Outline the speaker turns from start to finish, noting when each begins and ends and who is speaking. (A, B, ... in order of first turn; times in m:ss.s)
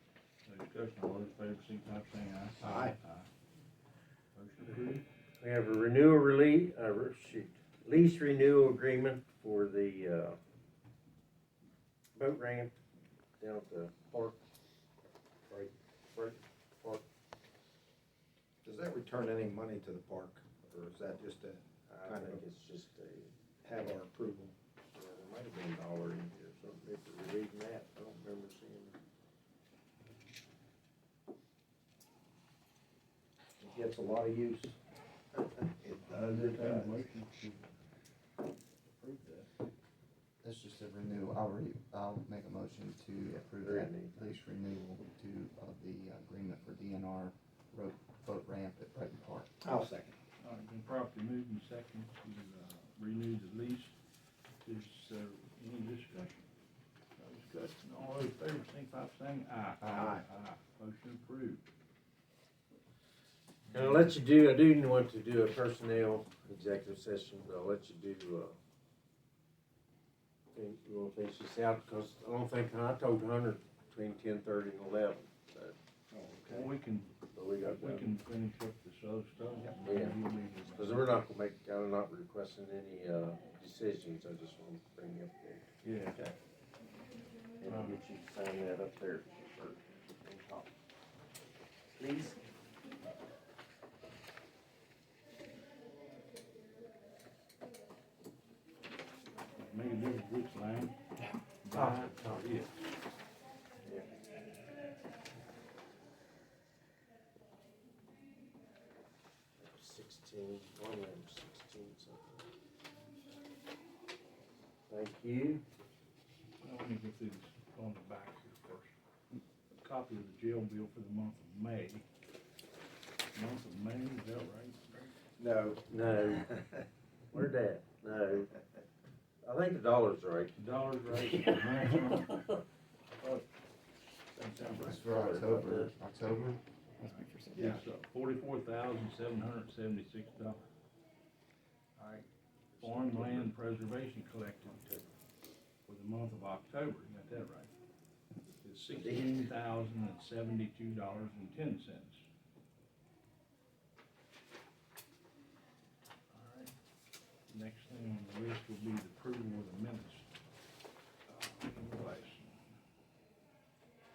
0:00.4-0:03.3 A
0:02.6-0:02.9 B
0:04.3-0:05.0 A
0:05.4-0:10.4 C
0:12.2-0:12.8 C
0:13.4-0:14.4 C
0:15.5-0:17.0 C
0:18.6-0:22.4 B
0:21.9-0:23.3 C
0:23.6-0:24.5 B
0:24.9-0:29.0 C
0:33.6-0:34.8 B
0:35.3-0:37.0 B
0:36.0-0:37.7 A
0:38.9-0:39.5 A
0:40.4-0:49.5 D
0:43.2-0:44.2 C
0:49.6-0:50.1 B
0:50.4-0:54.0 A
0:54.6-0:56.4 A
0:57.2-1:01.6 A
0:59.8-1:00.2 B
1:03.7-1:04.1 A
1:03.7-1:08.6 C
1:10.5-1:15.7 C
1:16.1-1:16.7 B
1:16.5-1:17.1 A
1:17.3-1:18.2 C
1:17.7-1:21.2 A
1:19.8-1:25.7 C
1:25.8-1:26.2 A
1:27.6-1:30.7 C
1:27.7-1:28.0 A
1:31.9-1:32.5 C
1:39.6-1:40.9 A
1:41.6-1:42.8 A
1:41.7-1:42.4 C
1:49.6-1:52.5 C
1:54.9-1:55.6 C
1:56.6-1:58.9 A
1:59.7-2:02.0 A
2:03.3-2:05.1 A
2:05.4-2:06.8 B
2:05.8-2:06.5 C
2:07.3-2:08.5 C
2:09.4-2:10.5 C
2:10.6-2:12.6 A
2:13.2-2:13.4 A
2:14.4-2:15.0 A
2:14.5-2:15.9 C
2:14.7-2:17.8 D
2:17.6-2:20.6 A
2:22.8-2:23.4 C
2:22.8-2:25.0 A
2:25.9-2:27.7 A
2:28.6-2:32.2 A
2:28.9-2:29.5 C
2:36.3-2:36.7 A
2:37.5-2:40.3 A
2:41.3-2:42.7 A